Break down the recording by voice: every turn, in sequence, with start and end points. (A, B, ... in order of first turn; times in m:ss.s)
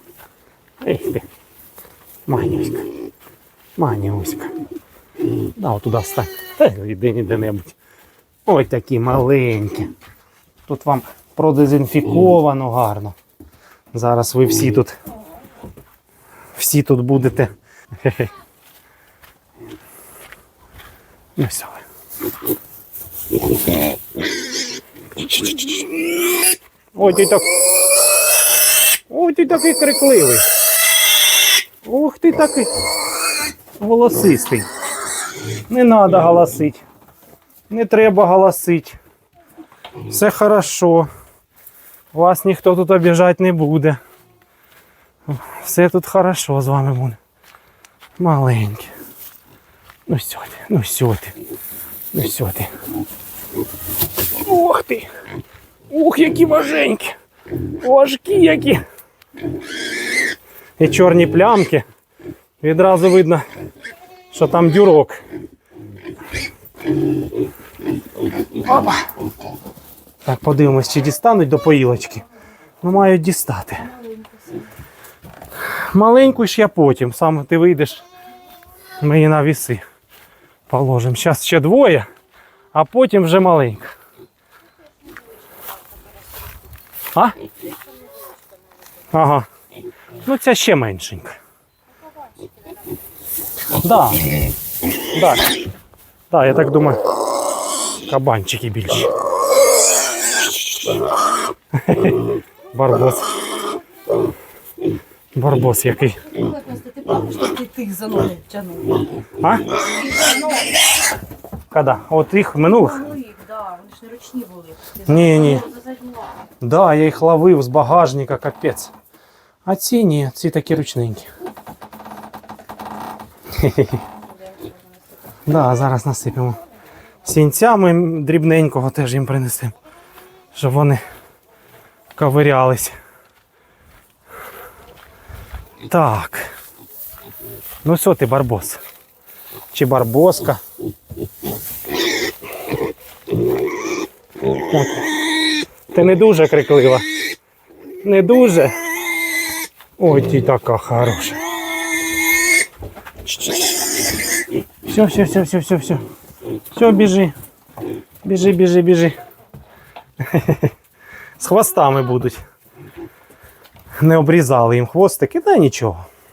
0:00.8-0:01.2 A
0:02.3-0:02.9 A
0:03.8-0:04.5 A
0:05.6-0:07.7 A
0:08.4-0:09.9 A
0:10.7-0:13.2 A
0:13.9-0:15.0 A
0:16.6-0:17.5 A
0:18.0-0:18.3 A
0:21.4-0:21.8 A
0:25.2-0:26.1 A
0:26.9-0:27.5 A
0:29.1-0:30.4 A
0:31.8-0:32.8 A
0:33.8-0:34.6 A
0:35.7-0:36.8 A
0:37.7-0:39.0 A
0:40.1-0:41.1 A
0:42.1-0:44.0 A
0:45.3-0:47.2 A
0:48.2-0:48.9 A
0:50.1-0:51.3 A
0:52.1-0:52.7 A
0:54.4-0:55.1 A
0:55.9-0:57.2 A
0:57.8-0:58.8 A
1:00.8-1:01.8 A
1:02.6-1:03.4 A
1:04.3-1:05.2 A
1:08.6-1:09.0 A
1:10.2-1:12.2 A
1:12.8-1:13.9 A
1:13.8-1:14.7 B
1:15.9-1:18.0 A
1:19.0-1:19.8 A
1:20.7-1:22.1 A
1:22.7-1:23.9 A
1:29.1-1:29.5 A
1:30.2-1:31.4 A
1:32.2-1:32.7 B
1:33.7-1:34.4 A
1:35.1-1:35.4 A
1:36.3-1:37.1 A
1:38.0-1:39.1 A
1:40.6-1:41.0 A
1:41.7-1:43.3 A
1:45.3-1:46.2 A
1:46.3-1:49.1 B
1:49.4-1:49.7 A
1:50.0-1:50.8 B
1:51.7-1:53.2 A
1:52.6-1:56.4 B
1:55.1-1:55.6 A
1:56.6-1:58.9 A
1:59.6-2:01.3 A
2:03.5-2:04.0 A
2:04.0-2:05.0 B
2:05.4-2:06.6 A
2:07.2-2:09.7 A
2:10.5-2:11.0 A
2:12.2-2:12.9 A
2:15.9-2:16.5 A
2:17.8-2:18.8 A
2:19.7-2:20.6 A
2:24.7-2:25.1 A
2:25.9-2:27.0 A
2:28.0-2:28.8 A
2:30.0-2:31.4 A
2:33.3-2:33.7 A
2:34.8-2:36.0 A
2:36.7-2:37.3 A
2:38.2-2:39.2 A
2:40.2-2:40.7 A
2:41.4-2:42.4 A
2:44.0-2:46.0 A